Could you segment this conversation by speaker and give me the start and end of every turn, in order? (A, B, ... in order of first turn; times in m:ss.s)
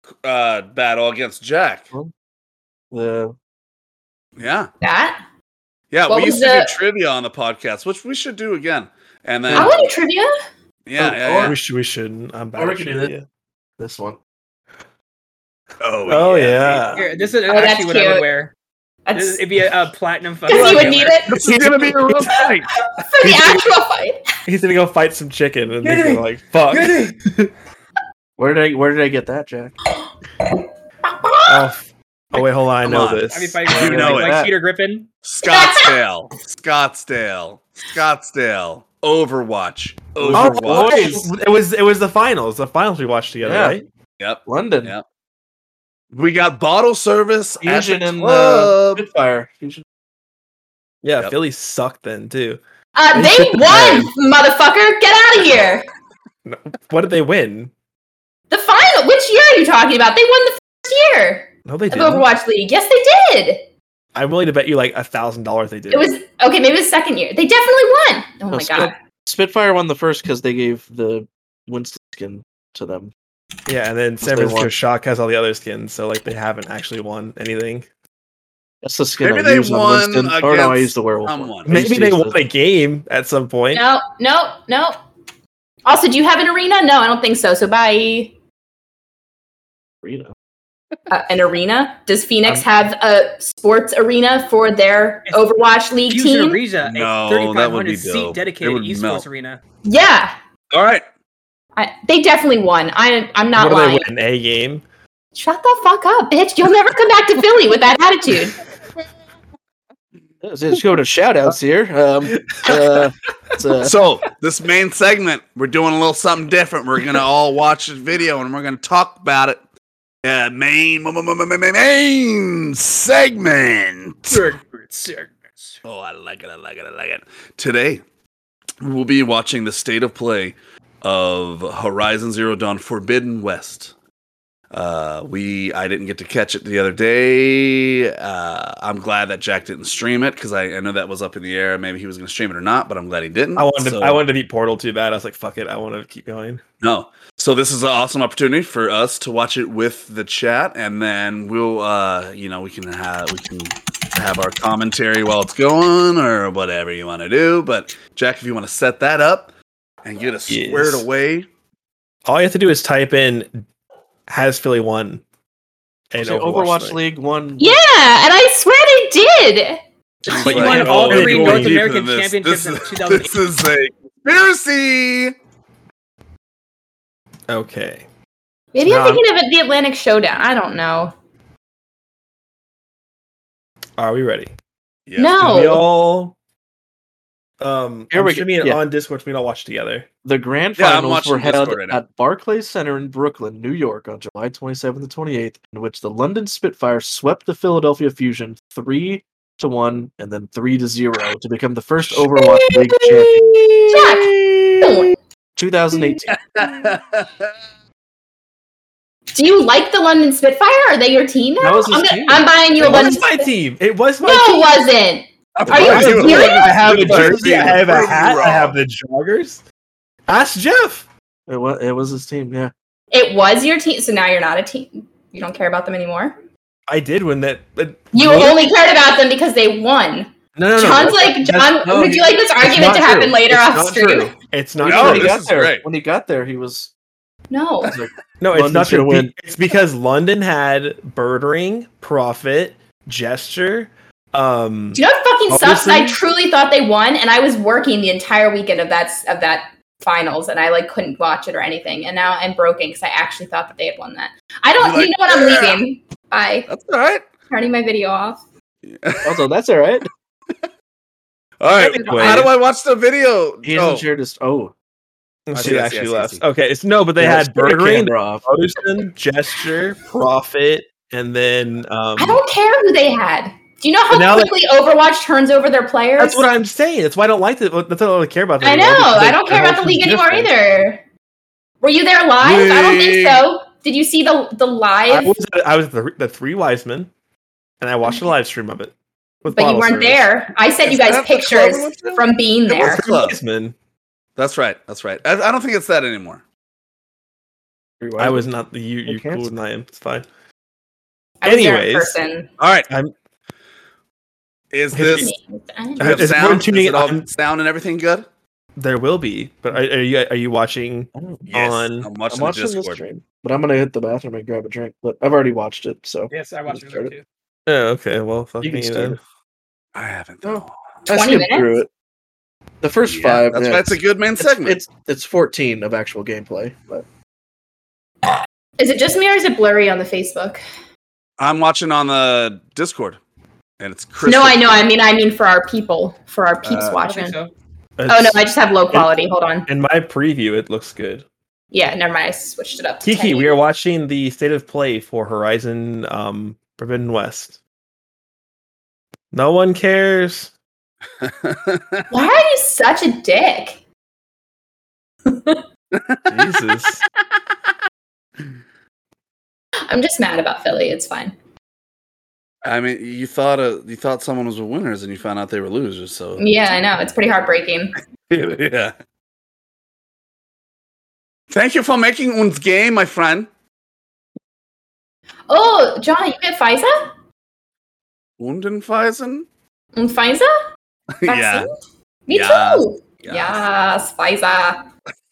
0:00.2-0:01.9 A
0:02.9-0:03.3 B
0:04.4-0:04.7 A
0:04.8-0:05.2 C
0:05.9-0:09.9 A
0:06.1-0:06.7 C
0:09.5-0:10.3 C
0:10.8-0:11.6 A
0:11.0-0:11.5 B
0:11.4-0:13.2 D
0:12.6-0:13.1 B
0:13.8-0:14.2 B
0:15.8-0:17.3 A
0:16.1-0:17.1 D
0:16.9-0:18.5 E
0:17.5-0:18.2 C
0:19.0-0:19.4 C
0:19.1-0:21.2 E
0:20.5-0:21.5 C
0:20.5-0:22.4 D
0:21.3-0:22.7 A
0:23.0-0:24.2 C
0:23.2-0:23.7 D
0:24.4-0:27.5 D
0:25.8-0:27.2 E
0:28.4-0:29.7 B
0:29.9-0:31.7 C
0:31.5-0:33.7 D
0:32.3-0:34.5 A
0:33.3-0:35.1 E
0:33.7-0:34.5 B
0:35.2-0:41.3 A
0:35.4-0:36.0 C
0:40.2-0:41.3 B
0:40.3-0:43.8 D
0:43.4-0:43.8 B
0:44.2-0:45.0 A
0:44.4-0:44.9 B
0:46.1-0:49.0 A
0:47.6-0:49.8 B
0:51.0-0:52.6 D
0:52.9-0:55.8 C
0:53.1-0:54.1 D
0:56.4-0:57.7 D
0:58.5-1:03.7 C
1:01.6-1:02.3 D
1:04.1-1:06.1 D
1:05.9-1:08.9 C
1:08.5-1:13.1 B
1:13.7-1:17.8 D
1:14.2-1:14.7 B
1:18.8-1:22.4 B
1:19.2-1:21.8 A
1:21.6-1:23.8 D
1:23.7-1:25.0 C
1:25.8-1:28.3 C
1:30.0-1:30.3 B
1:31.1-1:36.6 C
1:36.1-1:39.6 E
1:36.8-1:39.2 A
1:39.8-1:40.3 C
1:40.7-1:41.0 A
1:41.8-1:44.1 C
1:43.6-1:44.8 D
1:45.3-1:48.6 C
1:50.4-1:53.9 B
1:52.5-1:53.0 D
1:53.8-1:59.6 A
2:00.2-2:04.4 A
2:04.3-2:05.8 E
2:05.8-2:08.0 A
2:08.8-2:13.9 A
2:14.7-2:24.2 A
2:23.6-2:26.6 D
2:26.8-2:39.5 A
2:40.0-2:41.5 A
2:40.5-2:41.0 D
2:42.2-2:43.6 D
2:44.3-2:45.2 D
2:46.1-2:47.0 D
2:46.2-2:47.8 B
2:47.6-2:49.8 C
2:50.2-2:55.3 A
2:50.3-2:53.3 E
2:50.3-2:51.8 D
2:57.5-2:58.0 D
2:58.7-3:01.1 C
2:58.8-2:59.2 D
3:04.0-3:04.5 D
3:05.0-3:05.4 A
3:05.2-3:05.8 C
3:05.4-3:06.4 D
3:07.6-3:10.1 D
3:08.1-3:08.8 B
3:10.2-3:23.6 B
3:10.8-3:12.0 A
3:22.9-3:24.8 A
3:23.9-3:25.2 C
3:25.6-3:26.4 B
3:26.1-3:27.5 A
3:29.3-3:33.5 C
3:31.6-3:33.1 B
3:32.8-3:34.8 D
3:34.2-3:36.7 C
3:35.5-3:38.8 A
3:35.6-3:38.1 B
3:35.8-3:39.6 D
3:40.3-3:41.0 D
3:41.5-3:42.7 B
3:43.1-3:46.4 C
3:46.9-3:48.6 D
3:48.1-3:54.3 C
3:50.6-3:52.4 B
3:50.6-3:51.5 D
3:52.6-3:55.4 D
3:54.8-3:56.9 B
3:54.8-3:55.8 A
3:57.5-3:58.0 C
3:57.8-3:59.3 B
3:58.4-4:06.2 D
4:04.9-4:16.7 C
4:14.8-4:15.8 A
4:16.7-4:17.3 A
4:17.5-4:18.4 C
4:18.8-4:19.4 A
4:19.2-4:20.1 B
4:21.6-4:24.0 A
4:21.8-4:22.3 E
4:21.9-4:22.5 D
4:23.6-4:24.7 B
4:25.5-4:32.4 D
4:25.5-4:26.4 A
4:27.2-4:28.4 B
4:32.2-4:36.4 C
4:34.1-4:34.5 D
4:36.2-4:40.5 D
4:38.6-4:41.0 C
4:41.8-4:45.3 C
4:42.4-4:43.5 A
4:45.1-4:47.1 D
4:47.8-4:48.9 D
4:49.4-4:50.2 D
4:49.5-4:53.1 C
4:50.8-4:53.4 A
4:52.7-4:53.7 D
4:54.4-4:56.4 A
4:58.0-4:58.5 B
4:58.2-5:00.2 D
4:59.0-4:59.5 B
5:01.4-5:02.5 C
5:01.4-5:02.2 D
5:02.6-5:02.9 A
5:04.7-5:05.3 A
5:04.9-5:05.3 D
5:05.1-5:06.3 C
5:06.0-5:07.3 D
5:06.0-5:08.3 A
5:08.8-5:12.1 D
5:11.1-5:11.5 B
5:11.5-5:13.0 A
5:12.3-5:17.1 B
5:16.3-5:17.2 E
5:17.7-5:19.2 D
5:18.6-5:19.2 B
5:19.9-5:21.1 A
5:20.4-5:21.9 B
5:21.1-5:21.7 C
5:22.8-5:27.0 B
5:23.0-5:24.8 A
5:28.2-5:30.6 C
5:31.4-5:33.2 A
5:33.8-5:34.9 A
5:34.2-5:37.4 C
5:36.6-5:37.0 A
5:37.0-5:37.5 E
5:38.0-5:39.1 D
5:38.1-5:39.7 C
5:39.7-5:41.2 D
5:41.7-5:43.6 C
5:43.0-5:47.6 D
5:49.3-5:50.5 D
5:51.2-5:52.1 A
5:52.1-5:53.8 C
5:55.3-5:55.6 C
5:55.9-5:56.4 A
5:56.3-5:57.0 D
5:59.9-6:01.3 C
6:02.6-6:06.4 A
6:06.4-6:08.0 C
6:08.3-6:08.9 A
6:11.5-6:13.5 A
6:15.5-6:17.1 C
6:18.4-6:19.5 A
6:20.0-6:20.5 C
6:21.1-6:21.7 A
6:21.2-6:21.7 C
6:22.3-6:24.8 C
6:22.3-6:23.6 A